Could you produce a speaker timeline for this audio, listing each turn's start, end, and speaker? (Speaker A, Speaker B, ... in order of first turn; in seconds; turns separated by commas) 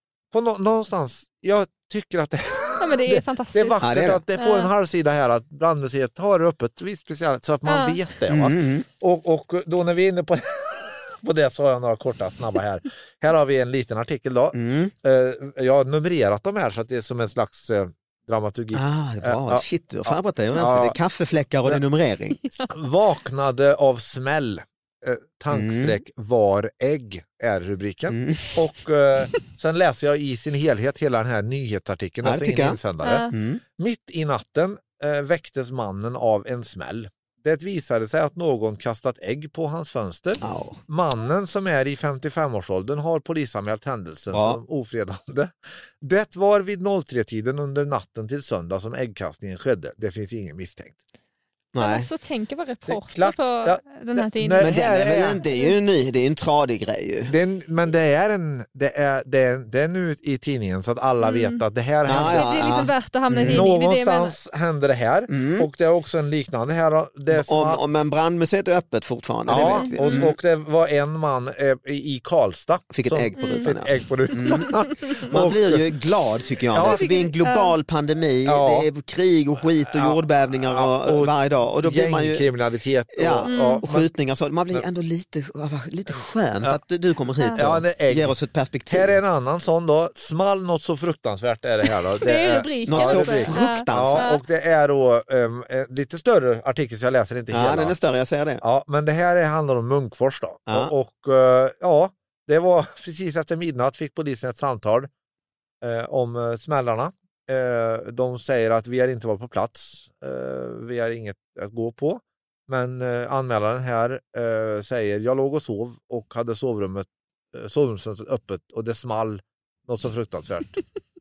Speaker A: 0.3-21.0, Speaker B: 2.8-3.8, Speaker C: 3.8-4.2, Speaker B: 4.3-4.7, Speaker B: 7.7-8.0, Speaker C: 8.3-8.9, Speaker C: 14.5-14.9, Speaker C: 18.7-22.5, Speaker A: 22.7-51.0, Speaker C: 25.5-26.0, Speaker C: 28.1-28.6, Speaker C: 32.2-32.8, Speaker B: 33.0-33.3, Speaker C: 33.3-33.6, Speaker C: 40.4-40.8, Speaker C: 44.3-44.6, Speaker C: 51.7-52.1, Speaker B: 51.8-54.8, Speaker A: 52.9-55.4, Speaker C: 54.6-57.3, Speaker B: 55.4-55.7, Speaker A: 57.3-62.5, Speaker B: 61.2-64.3, Speaker C: 62.1-63.6, Speaker A: 63.4-67.8, Speaker C: 65.3-65.7, Speaker C: 67.3-70.3, Speaker A: 69.5-75.9, Speaker B: 69.5-70.3, Speaker C: 72.9-74.7, Speaker B: 73.4-73.7, Speaker B: 74.4-75.3, Speaker C: 75.3-82.4, Speaker A: 76.7-77.0, Speaker B: 76.9-77.8, Speaker A: 78.5-78.9, Speaker A: 79.9-84.1, Speaker C: 83.1-89.2, Speaker B: 83.5-83.8, Speaker A: 87.6-88.3, Speaker A: 88.9-98.0, Speaker B: 92.2-94.4, Speaker C: 92.9-94.3, Speaker C: 97.5-98.6, Speaker A: 98.6-105.1, Speaker C: 100.7-100.9, Speaker A: 105.8-120.8